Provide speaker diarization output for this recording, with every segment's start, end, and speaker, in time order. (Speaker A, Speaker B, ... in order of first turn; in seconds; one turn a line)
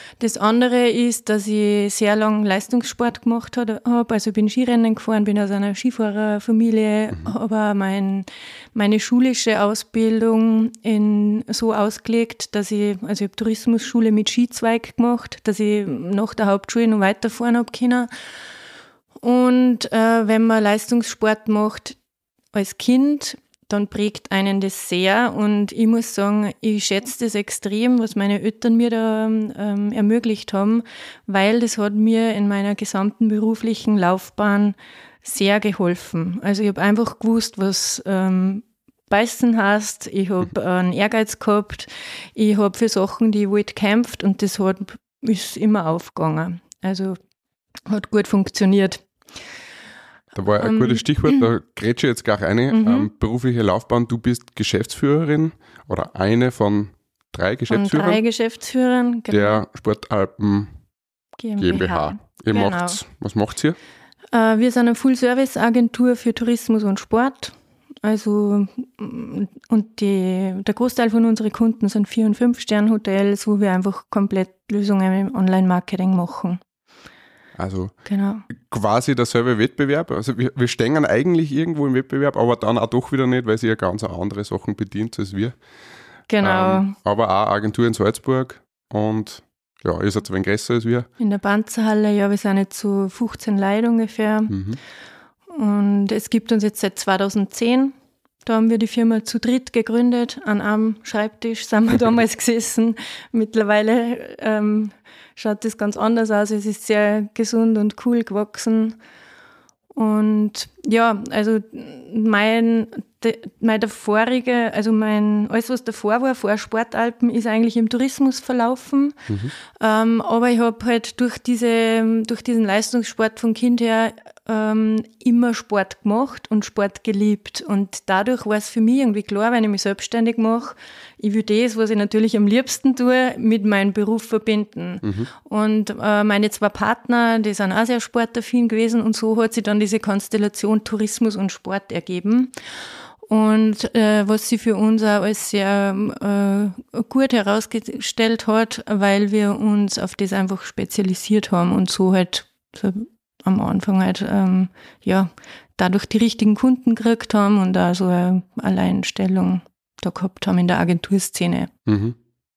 Speaker A: 0.2-18.1
Speaker A: 19.2-22.0
Speaker A: 22.5-47.2
Speaker A: 47.9-49.0
Speaker B: 50.3-58.2
Speaker A: 50.6-51.5
Speaker A: 52.7-53.1
Speaker A: 57.7-59.6
Speaker B: 59.3-60.7
Speaker A: 61.4-63.0
Speaker B: 61.6-63.8
Speaker A: 64.3-76.6
Speaker B: 77.6-77.9
Speaker A: 78.1-78.4
Speaker B: 78.5-85.5
Speaker A: 86.3-86.9
Speaker B: 86.4-91.1
Speaker A: 91.2-94.5
Speaker B: 94.5-94.8
Speaker A: 95.5-97.9
Speaker A: 98.4-109.0
Speaker A: 109.9-119.2
Speaker A: 119.8-142.5
Speaker A: 143.3-161.7
Speaker B: 161.8-162.2